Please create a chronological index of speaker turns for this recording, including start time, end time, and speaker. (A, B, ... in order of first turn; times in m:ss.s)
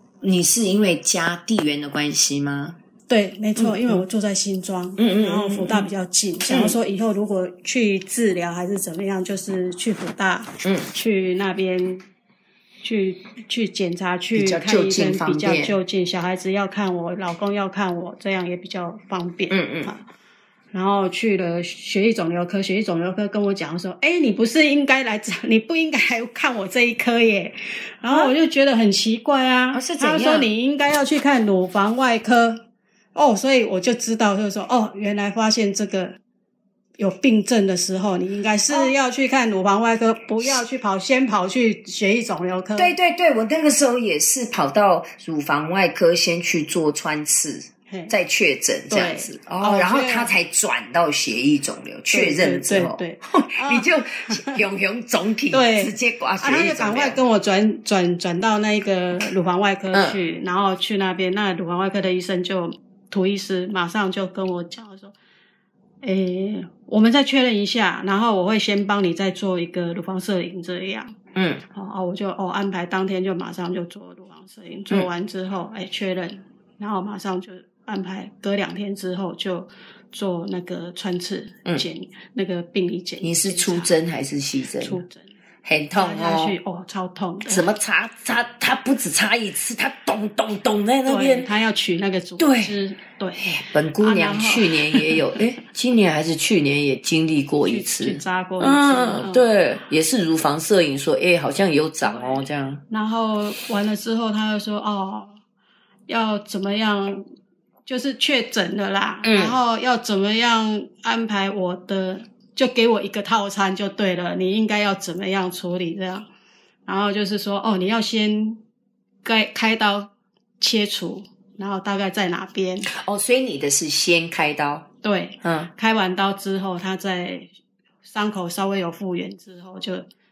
0:00.2-0:02.8 A
0:03.1-0:12.1 B
0:03.6-0:04.0 A
0:05.0-0:05.9 A
0:06.5-0:06.8 A
0:10.6-0:10.9 A
0:12.8-0:20.0 B
0:14.3-0:15.8 A
0:19.5-0:19.9 A
0:20.7-0:32.6 B
0:28.0-0:28.3 A
0:29.7-0:30.5 A
0:33.2-0:36.2 B
0:37.0-0:42.9 B
0:42.8-0:57.2 A
0:47.9-0:48.1 B
0:48.9-0:50.3 B
0:52.1-0:54.6 B
0:55.5-1:05.2 B
0:59.9-1:00.2 A
1:06.0-1:11.2 B
1:11.4-1:11.6 A
1:11.7-1:23.9 B
1:23.2-1:25.0 A
1:24.8-1:25.3 B
1:25.6-1:26.6 A
1:26.0-1:27.6 B
1:27.5-1:31.5 A
1:31.1-1:35.4 B
1:32.4-1:32.7 A
1:33.4-1:42.8 A
1:37.6-1:39.5 B
1:42.0-1:45.4 B
1:46.1-1:47.3 B
1:47.9-1:56.3 B
1:49.2-1:49.6 A
1:56.9-1:58.6 B
1:59.2-2:02.9 B
2:02.9-2:04.9 A
2:05.0-2:07.5 B
2:05.4-2:05.7 A
2:08.0-2:10.1 B